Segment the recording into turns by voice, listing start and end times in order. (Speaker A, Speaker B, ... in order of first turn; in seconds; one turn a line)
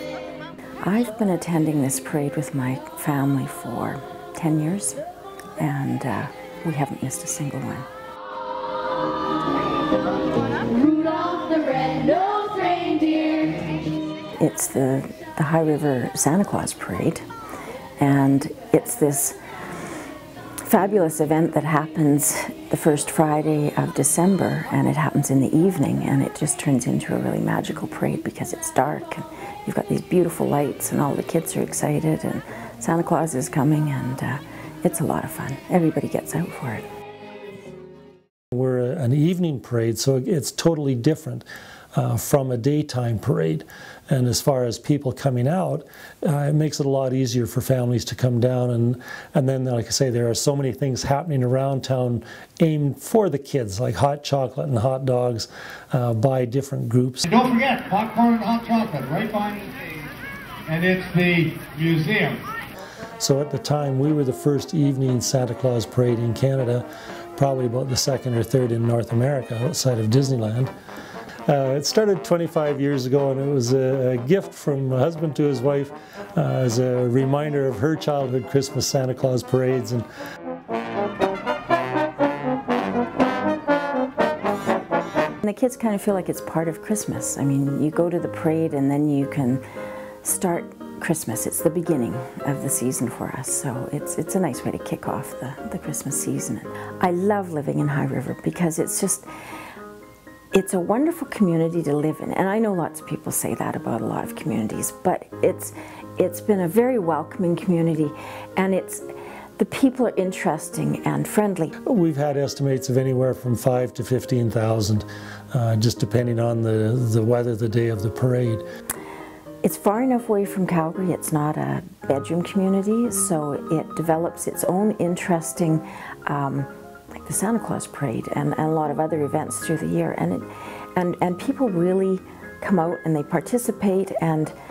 Speaker A: 0.8-5.0
Speaker A: 5.6-7.9
Speaker B: 10.5-13.7
Speaker A: 14.4-17.2
Speaker A: 18.0-19.4
Speaker A: 20.6-36.9
Speaker C: 38.5-57.2
Speaker D: 57.2-59.7
Speaker D: 60.7-62.4
Speaker C: 63.2-70.7
Speaker C: 71.5-80.1
Speaker A: 85.4-89.6
Speaker A: 90.2-99.3
Speaker A: 100.5-109.0
Speaker A: 109.6-111.8
Speaker C: 111.8-118.6
Speaker A: 119.6-134.5